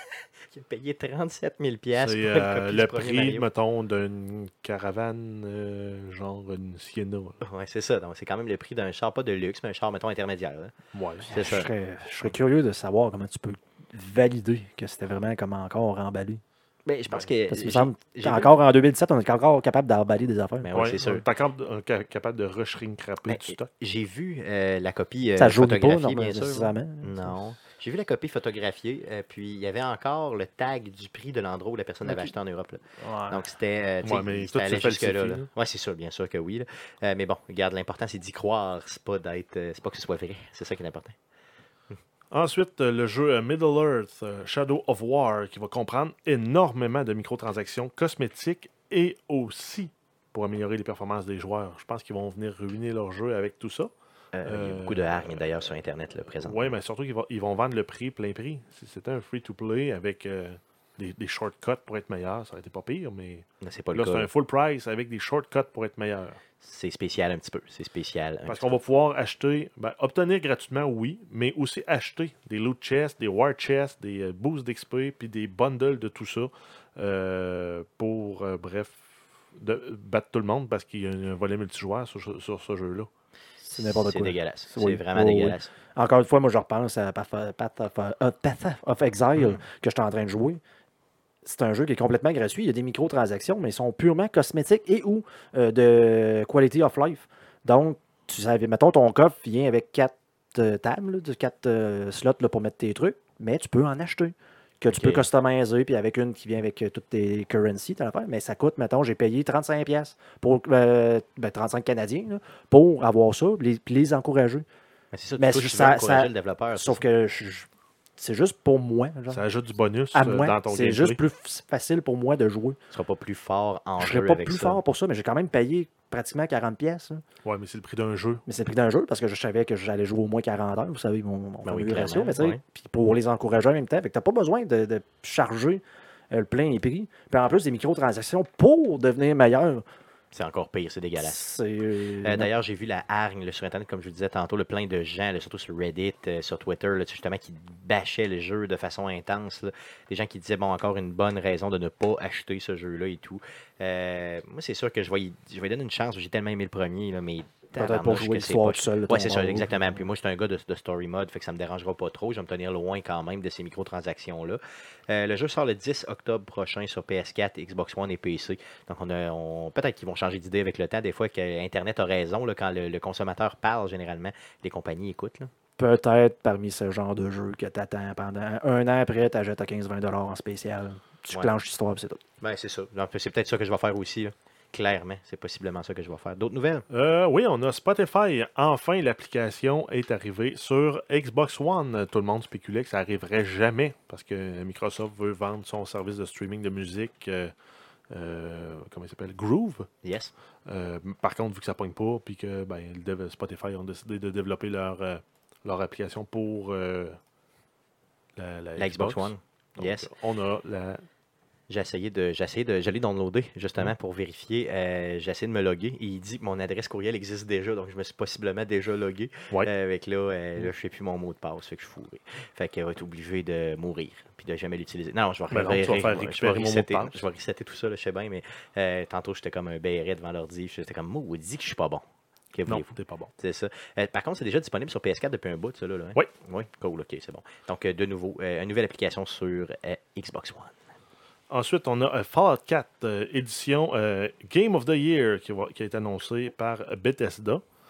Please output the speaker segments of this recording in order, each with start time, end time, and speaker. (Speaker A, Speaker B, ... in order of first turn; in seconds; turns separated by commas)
Speaker A: 0.4-3.5, Speaker B: 1.9-7.4, Speaker A: 7.4-10.8, Speaker B: 10.9-11.3, Speaker C: 11.3-16.4, Speaker A: 11.3-11.7, Speaker A: 16.9-18.5, Speaker C: 17.5-20.7, Speaker A: 20.6-21.2, Speaker B: 20.7-23.7, Speaker A: 23.2-41.2, Speaker C: 25.4-27.4, Speaker C: 32.0-32.3, Speaker C: 33.0-33.4, Speaker B: 34.0-35.5, Speaker B: 42.3-53.9, Speaker A: 54.3-56.7, Speaker B: 54.4-55.5, Speaker B: 56.4-66.4, Speaker A: 63.6-64.3, Speaker A: 66.6-68.8, Speaker B: 68.5-79.0, Speaker B: 79.6-83.1, Speaker A: 83.6-85.7, Speaker C: 83.8-90.6, Speaker A: 89.4-89.6, Speaker C: 91.5-114.7, Speaker A: 104.9-105.3, Speaker A: 115.1-117.0, Speaker C: 115.4-119.4, Speaker B: 119.3-121.2, Speaker C: 120.1-122.8, Speaker A: 122.9-124.8, Speaker C: 124.0-127.2, Speaker B: 127.4-128.4, Speaker C: 128.5-139.8, Speaker A: 131.6-132.6, Speaker A: 140.3-141.5, Speaker C: 141.2-142.5, Speaker A: 142.2-175.5, Speaker C: 157.8-159.9, Speaker C: 175.8-182.2, Speaker A: 182.4-186.8, Speaker B: 186.9-197.5, Speaker B: 198.1-199.9, Speaker A: 200.0-200.3, Speaker B: 200.7-207.2, Speaker B: 208.4-211.1, Speaker A: 208.8-210.1, Speaker A: 211.7-240.8, Speaker B: 225.5-227.2, Speaker B: 232.7-233.3, Speaker B: 241.5-247.6